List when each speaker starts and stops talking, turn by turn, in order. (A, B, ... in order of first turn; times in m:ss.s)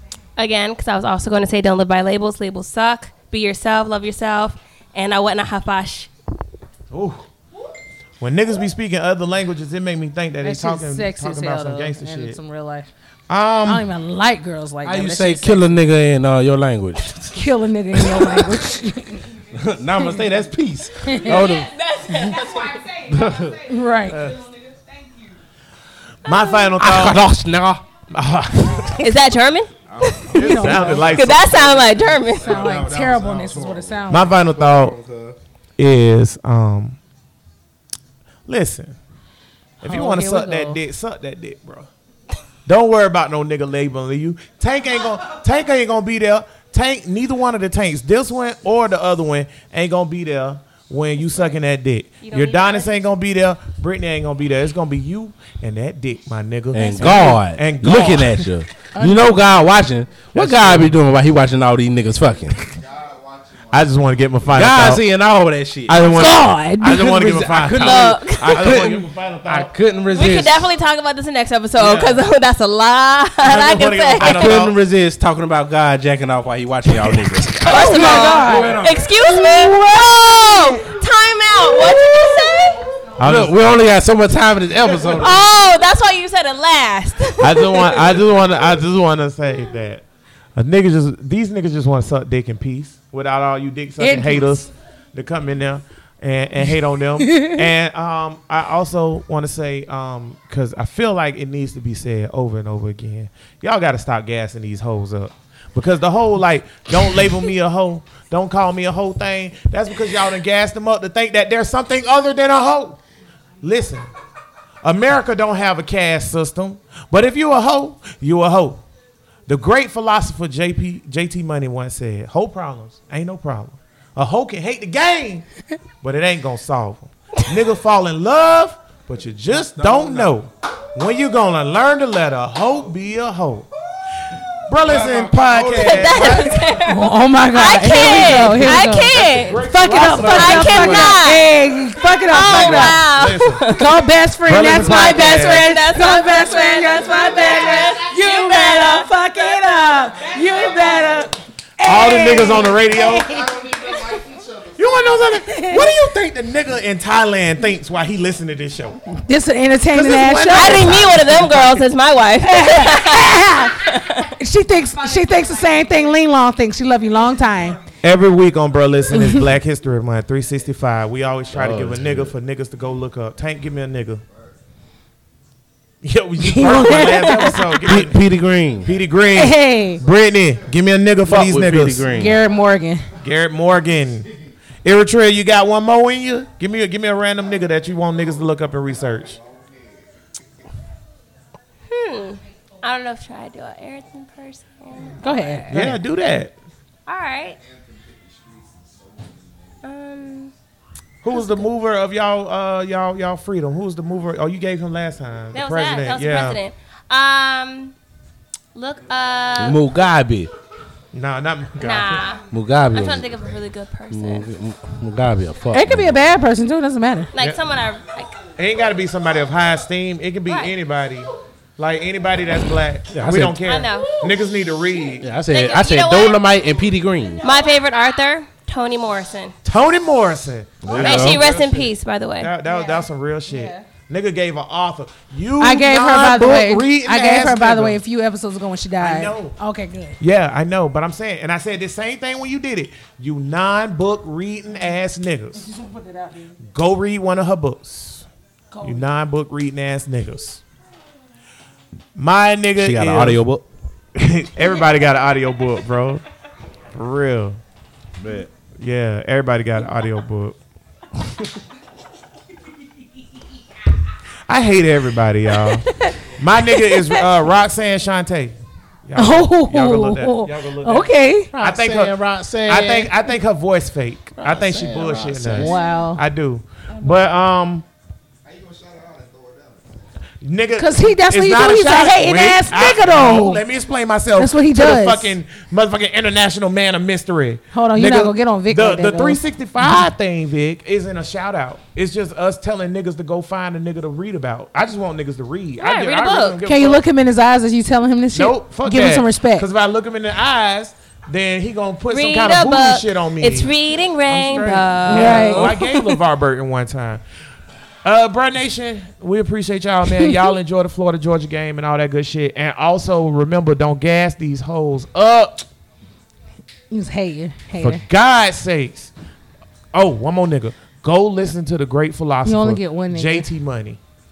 0:00.4-0:06.1 A
0:06.9-0:07.2 B
0:08.2-0:12.4 B
0:10.4-0:12.9 C
0:13.3-0:13.9 B
0:13.6-0:15.7 C
0:14.8-0:17.4 D
0:17.4-0:19.2 C
0:17.9-0:18.6 D
0:19.5-0:21.7 D
0:21.0-0:21.5 C
0:21.3-0:25.3 E
0:21.5-0:22.8 A
0:23.1-0:24.4 D
0:23.7-0:24.2 C
0:26.2-0:27.3 B
0:26.3-0:26.6 A
0:26.8-0:27.8 D
0:28.1-0:29.1 B
0:29.0-0:30.4 A
0:29.9-0:31.2 D
0:30.3-0:31.1 C
0:30.4-0:31.9 B
0:31.1-0:32.6 A
0:32.0-0:35.4 F
0:32.4-0:34.4 C
0:34.1-0:35.0 B
0:35.8-0:37.0 B
0:38.5-0:39.0 B
0:39.8-0:41.9 B
0:39.8-0:40.8 C
0:42.7-0:58.5 B
0:52.2-0:53.1 A
0:56.7-1:02.6 D
0:56.8-0:57.4 A
0:59.0-0:59.3 C
1:00.4-1:01.0 B
1:02.7-1:04.0 F
1:03.7-1:05.0 B
1:04.5-1:10.7 D
1:05.9-1:09.7 B
1:06.2-1:07.1 C
1:07.8-1:08.8 A
1:10.1-1:14.6 A
1:11.8-1:12.2 B
1:13.4-1:14.8 B
1:14.2-1:19.1 D
1:17.6-1:22.9 A
1:17.6-1:20.9 C
1:21.9-1:22.4 C
1:23.2-1:23.8 B
1:23.2-1:25.4 D
1:25.1-1:28.2 A
1:27.4-1:30.0 B
1:30.6-1:53.0 B
1:34.0-1:34.6 C
1:37.2-1:37.6 C
1:53.6-1:54.1 B
1:54.8-1:58.8 B
1:59.5-2:05.5 B
2:06.0-2:13.7 B
2:09.8-2:10.3 F
2:09.8-2:10.3 D
2:14.7-2:16.7 B
2:14.8-2:16.7 F
2:15.7-2:21.5 A
2:16.8-2:23.0 C
2:18.1-2:21.2 B
2:22.3-2:23.9 A
2:22.4-2:23.6 B
2:23.7-2:33.5 C
2:24.5-2:25.7 B
2:24.7-2:29.1 A
2:27.1-2:28.0 F
2:27.3-2:29.0 E
2:30.2-2:31.3 F
2:30.4-2:31.2 E
2:31.8-2:33.3 B
2:33.0-2:35.4 F
2:34.8-2:39.0 B
2:35.5-2:35.8 C
2:39.3-2:41.0 C
2:39.9-2:41.8 B
2:40.5-2:44.3 A
2:42.4-2:47.8 C
2:48.0-2:54.2 B
2:49.1-2:49.5 C
2:51.5-2:52.4 D
2:56.0-3:02.3 B
2:56.4-2:57.8 C
2:57.8-2:58.9 D
2:59.3-3:00.0 C
3:01.2-3:02.4 D
3:02.1-3:03.1 C
3:03.2-3:04.3 B
3:04.8-3:09.4 B
3:08.9-3:10.1 F
3:11.9-3:15.6 A
3:15.2-3:16.0 C
3:15.7-3:16.5 B
3:17.1-3:17.6 A
3:17.5-3:19.8 F
3:19.8-3:20.5 A
3:21.2-3:26.6 B
3:21.3-3:21.6 A
3:25.5-3:28.0 A
3:28.8-3:29.8 A
3:29.6-3:30.5 D
3:31.1-3:32.2 B
3:31.8-3:34.5 A
3:32.5-3:33.3 D
3:34.1-3:36.3 D
3:35.7-3:37.3 C
3:37.3-3:38.4 A
3:38.6-3:45.3 B
3:40.5-3:40.8 A
3:43.1-3:43.8 D
3:43.6-3:44.3 A
3:45.2-3:47.5 D
3:45.5-3:46.4 A
3:47.4-3:49.6 A
3:47.4-3:47.8 E
3:49.6-3:58.0 B
3:50.8-3:51.4 D
3:51.0-3:52.5 A
3:52.7-3:53.0 C
3:53.5-3:53.8 C
3:55.6-4:00.2 C
3:59.0-3:59.6 B
4:00.2-4:05.6 B
4:05.6-4:06.6 C
4:06.7-4:08.3 B
4:08.7-4:09.1 C
4:08.8-4:10.6 B
4:12.2-4:13.4 B
4:12.8-4:13.6 D
4:14.2-4:16.2 B
4:17.0-4:17.6 B
4:18.2-4:18.5 D
4:18.8-4:20.6 B
4:24.5-4:28.6 B
4:25.8-4:26.3 C
4:26.8-4:27.2 C
4:29.1-4:37.8 B
4:29.2-4:31.5 C
4:31.5-4:33.2 D
4:34.4-4:35.8 D
4:35.6-4:36.2 C
4:38.4-4:40.0 F
4:40.4-4:57.0 B
4:40.8-4:43.6 C
4:44.4-4:45.4 C
4:47.7-4:50.0 C
4:55.8-4:56.6 A
4:56.6-4:59.7 C
4:58.3-5:03.7 B
5:02.1-5:05.7 A
5:04.3-5:07.2 B
5:05.0-5:06.2 C
5:08.0-5:15.7 B
5:16.9-5:18.0 C
5:17.8-5:19.1 B
5:19.9-5:24.0 B
5:22.4-5:23.5 C